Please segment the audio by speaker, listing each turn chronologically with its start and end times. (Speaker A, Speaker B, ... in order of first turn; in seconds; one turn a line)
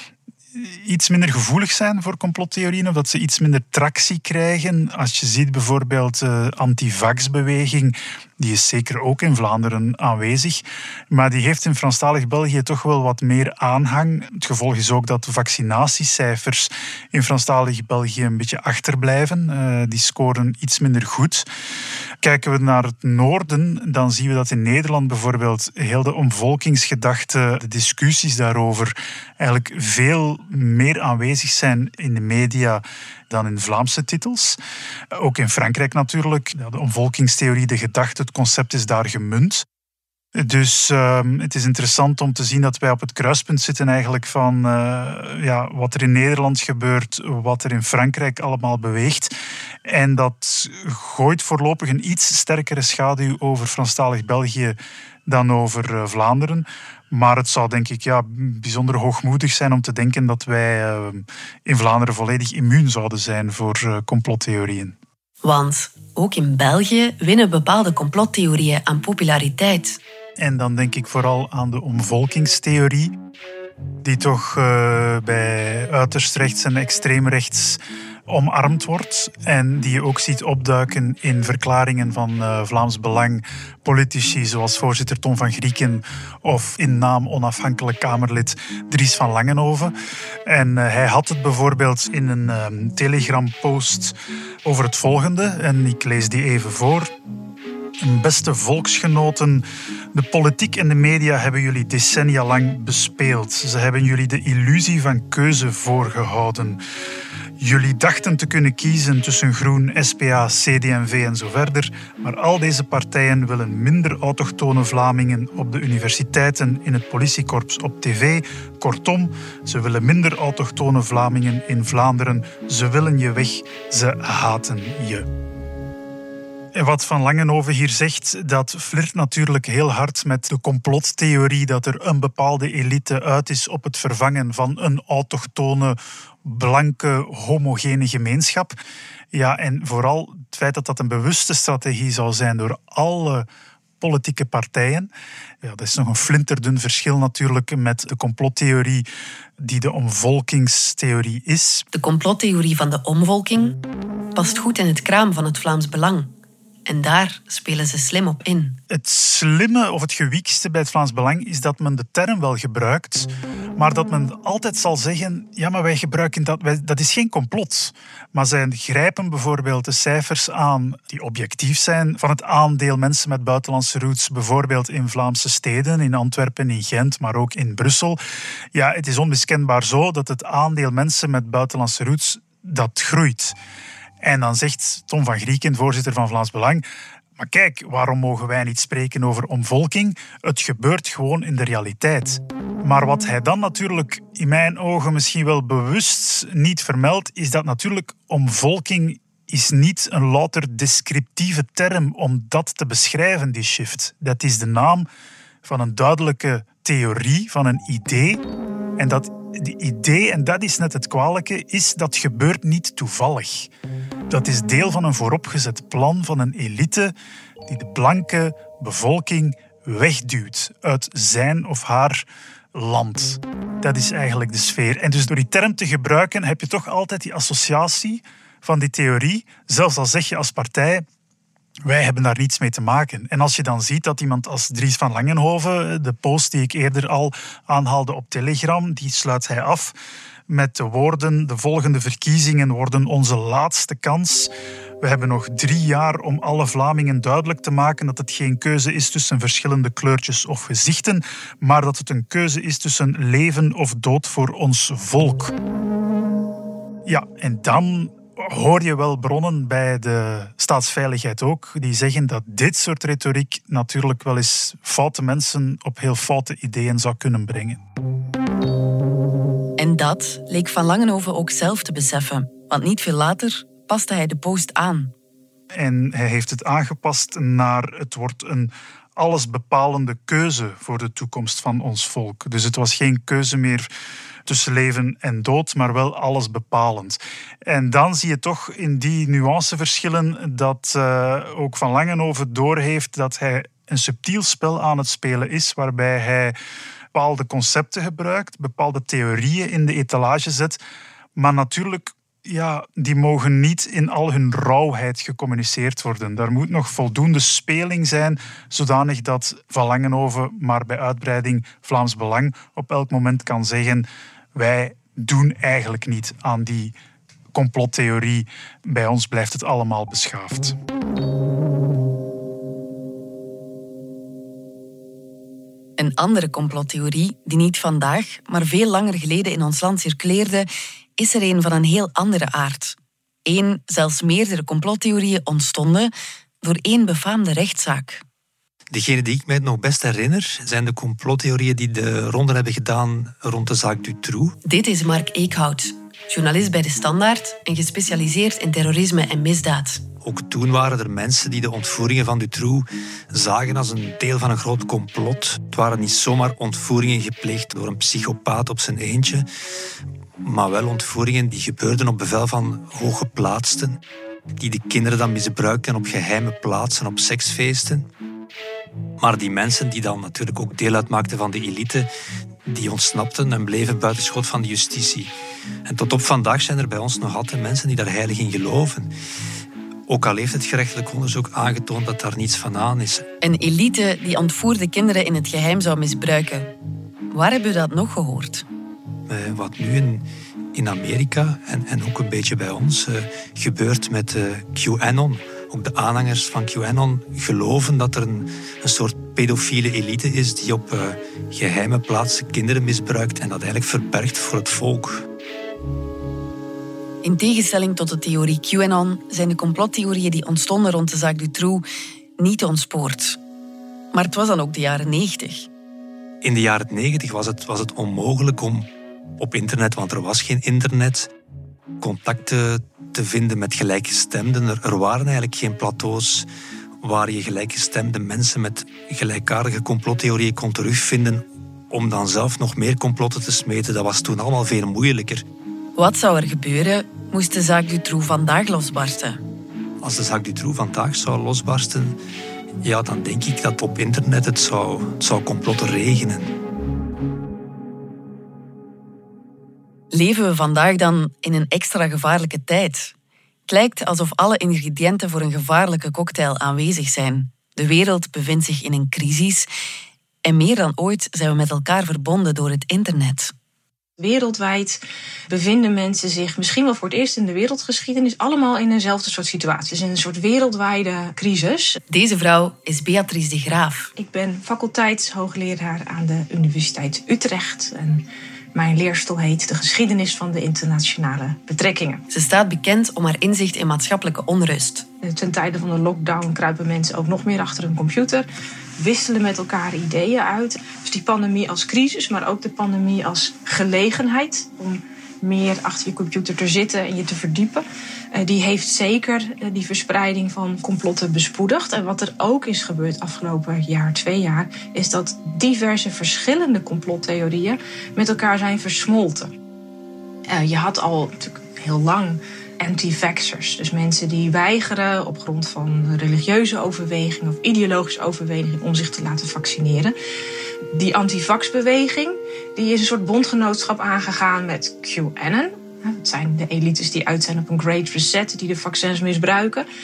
Speaker A: 0.5-21.4
Speaker A: 22.2-34.6
Speaker A: 35.2-39.6
Speaker A: 40.4-49.3
Speaker A: 49.9-64.9
Speaker B: 65.4-70.0
Speaker A: 70.4-73.1
Speaker A: 74.0-89.9
Speaker A: 90.5-94.1
Speaker A: 94.6-97.1
Speaker A: 98.0-106.8
Speaker A: 107.6-125.2
Speaker A: 126.7-138.8
Speaker A: 139.3-143.4
Speaker A: 144.0-145.1
Speaker A: 145.6-149.1
Speaker A: 149.6-151.8
Speaker B: 151.9-153.8
Speaker B: 154.3-156.3
Speaker B: 156.8-158.8
Speaker A: 158.9-178.2
Speaker A: 178.7-183.6
Speaker A: 184.2-186.8
Speaker A: 187.4-205.1
Speaker A: 205.6-208.4
Speaker A: 209.0-213.7
Speaker A: 214.3-217.1
Speaker A: 217.7-231.0
Speaker A: 231.8-239.9
Speaker A: 240.5-244.5
Speaker A: 245.0-255.5
Speaker A: 257.1-267.8
Speaker B: 269.8-275.1
Speaker A: 275.7-283.9
Speaker A: 284.5-296.6
Speaker A: 297.1-300.8
Speaker A: 301.4-316.9
Speaker A: 317.5-320.7
Speaker B: 326.0-336.1
Speaker B: 336.6-338.2
Speaker C: 338.9-344.5
Speaker B: 344.6-350.0
Speaker C: 350.2-359.5
Speaker C: 360.4-364.0
Speaker C: 364.6-368.1
Speaker C: 369.2-372.1
Speaker C: 372.6-375.3
Speaker C: 375.9-379.1
Speaker C: 380.1-383.2
Speaker B: 383.4-386.7
Speaker B: 387.3-388.6
Speaker C: 389.3-405.2
Speaker B: 407.2-411.8
Speaker B: 412.4-413.4
Speaker B: 414.1-415.7
Speaker C: 416.4-418.9
Speaker C: 419.4-421.3
Speaker C: 422.0-426.5
Speaker C: 427.0-435.4
Speaker B: 435.9-439.4
Speaker C: 440.0-442.2
Speaker C: 442.8-446.5
Speaker B: 450.1-453.1
Speaker B: 453.7-459.7
Speaker B: 460.4-463.5
Speaker D: 464.2-465.0
Speaker D: 465.5-472.0
Speaker B: 472.1-474.1
Speaker D: 474.1-478.2
Speaker D: 478.7-482.2
Speaker B: 482.3-485.1
Speaker D: 485.2-488.4
Speaker D: 489.0-509.5
Speaker D: 510.5-520.1
Speaker D: 520.9-529.8